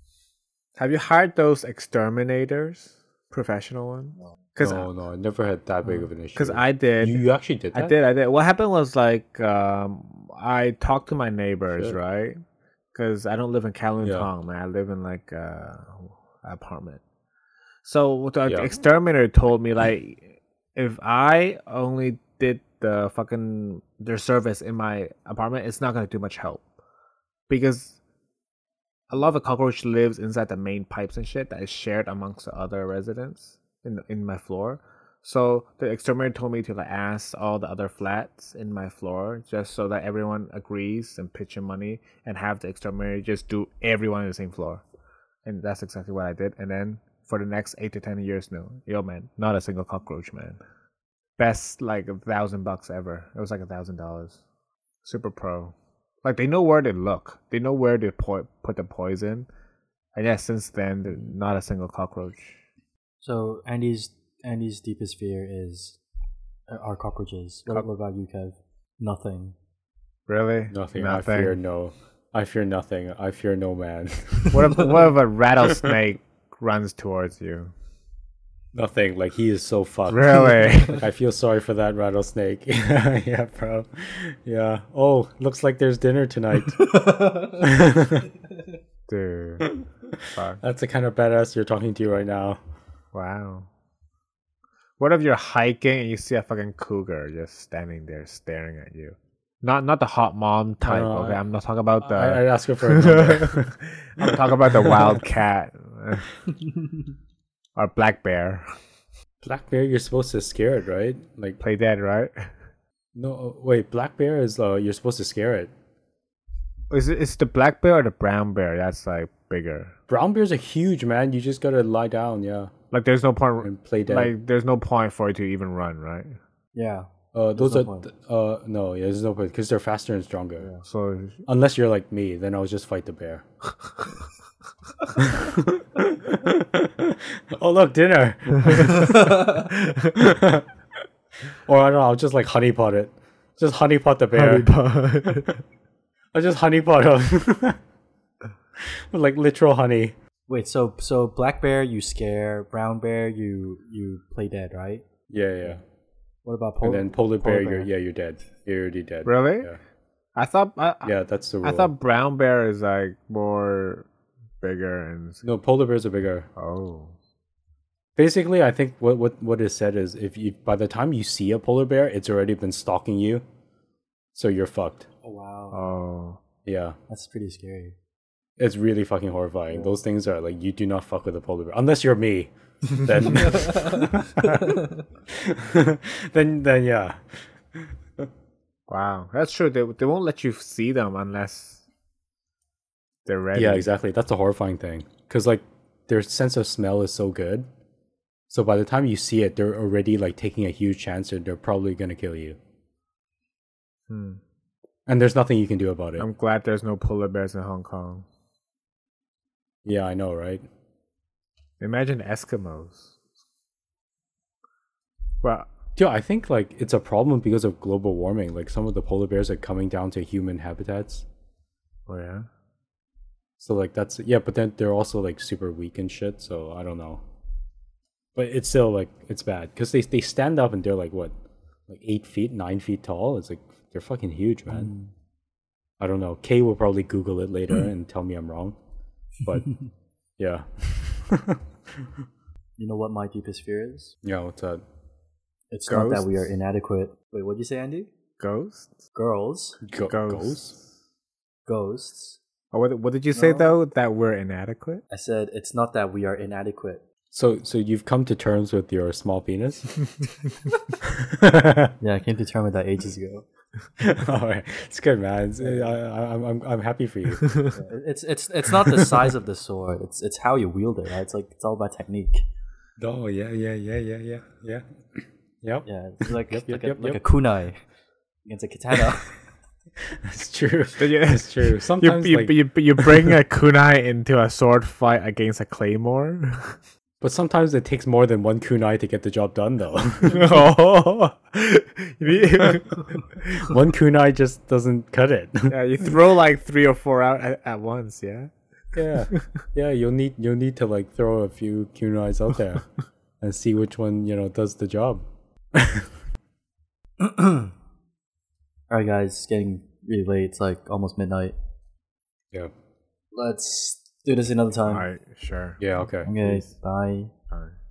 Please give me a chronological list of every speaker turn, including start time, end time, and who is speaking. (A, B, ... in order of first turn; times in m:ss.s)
0:00.8-0:04.9 A
0:04.6-0:07.9 B
0:05.8-0:12.4 A
0:12.9-0:17.0 A
0:14.0-0:14.3 B
0:17.8-0:26.6 A
0:27.5-0:28.0 A
0:29.1-0:44.8 A
0:45.4-0:50.6 A
0:51.4-0:54.4 A
0:55.0-0:59.5 A
1:00.2-1:02.6 A
1:03.2-1:06.0 C
1:06.7-1:09.6 C
1:10.3-1:11.6 A
1:10.7-1:14.8 B
1:14.5-1:17.7 A
1:18.7-1:26.9 B
1:20.1-1:21.0 A
1:26.7-1:27.6 C
1:27.6-1:28.3 B
1:29.1-1:29.7 A
1:29.6-1:32.6 B
1:30.3-1:30.6 A
1:33.1-1:33.7 A
1:35.0-1:46.4 A
1:40.8-1:41.4 B
1:42.0-1:45.3 B
1:47.8-1:48.7 A
1:49.4-1:51.6 B
1:51.6-1:52.5 A
1:53.1-1:55.7 B
1:56.9-2:00.0 A
2:00.1-2:02.7 B
2:02.9-2:06.4 A
2:03.6-2:04.3 B
2:06.7-2:08.1 C
2:07.3-2:10.7 B
2:10.8-2:11.4 A
2:11.5-2:13.4 B
2:15.1-2:20.7 B
2:18.6-2:20.2 A
2:18.9-2:19.4 C
2:21.7-2:24.7 B
2:24.3-2:25.6 A
2:26.3-2:27.8 B
2:28.8-2:30.1 B
2:30.5-2:35.1 C
2:35.3-2:35.8 B
2:36.4-2:37.9 C
2:36.8-2:39.8 B
2:39.2-2:39.7 A
2:40.4-2:44.1 A
2:41.0-2:41.9 B
2:44.6-2:45.4 A
2:45.4-2:46.5 B
2:46.6-2:47.1 A
2:48.2-2:53.4 B
2:54.3-2:55.1 B
2:55.2-2:55.9 C
2:55.7-2:56.4 A
2:56.6-2:57.0 B
2:57.1-2:58.0 C
2:58.6-3:08.3 B
3:03.4-3:05.0 C
3:08.9-3:11.8 A
3:13.2-3:13.9 A
3:13.5-3:17.7 B
3:18.5-3:22.6 B
3:24.1-3:24.4 A
3:25.1-3:26.2 B
3:26.2-3:28.2 A
3:29.8-3:30.6 B
3:31.8-3:33.2 A
3:35.4-3:35.7 A
3:36.0-3:41.2 B
3:42.1-3:42.5 A
3:43.6-3:47.2 B
3:48.3-3:51.3 B
3:51.9-3:54.9 B
3:54.7-3:55.1 C
3:56.0-3:58.8 B
3:59.4-3:59.7 B
4:00.4-4:02.1 B
4:02.8-4:04.1 C
4:04.2-4:04.8 B
4:05.7-4:08.1 C
4:05.9-4:06.5 A
4:08.4-4:09.0 A
4:09.1-4:09.8 C
4:09.8-4:10.7 B
4:10.1-4:10.8 A
4:11.7-4:12.4 C
4:12.7-4:15.0 A
4:13.3-4:13.7 C
4:15.1-4:17.0 C
4:17.3-4:20.0 B
4:21.0-4:22.0 B
4:22.0-4:23.4 C
4:24.0-4:27.6 B
4:25.6-4:25.9 C
4:27.4-4:27.7 A
4:27.7-4:32.4 C
4:28.7-4:29.3 B
4:33.0-4:37.2 B
4:35.8-4:37.8 C
4:38.4-4:39.3 C
4:40.0-4:43.4 B
4:41.0-4:46.8 A
4:47.2-4:50.6 B
4:50.2-4:53.7 A
4:53.5-4:56.1 B
4:55.7-4:58.5 A
4:58.9-5:02.8 B
5:03.4-5:05.2 B
5:05.7-5:06.1 B
5:07.2-5:07.7 C
5:08.9-5:11.6 C
5:13.3-5:15.0 C
5:14.9-5:15.8 A
5:15.8-5:16.6 B
5:16.2-5:17.3 C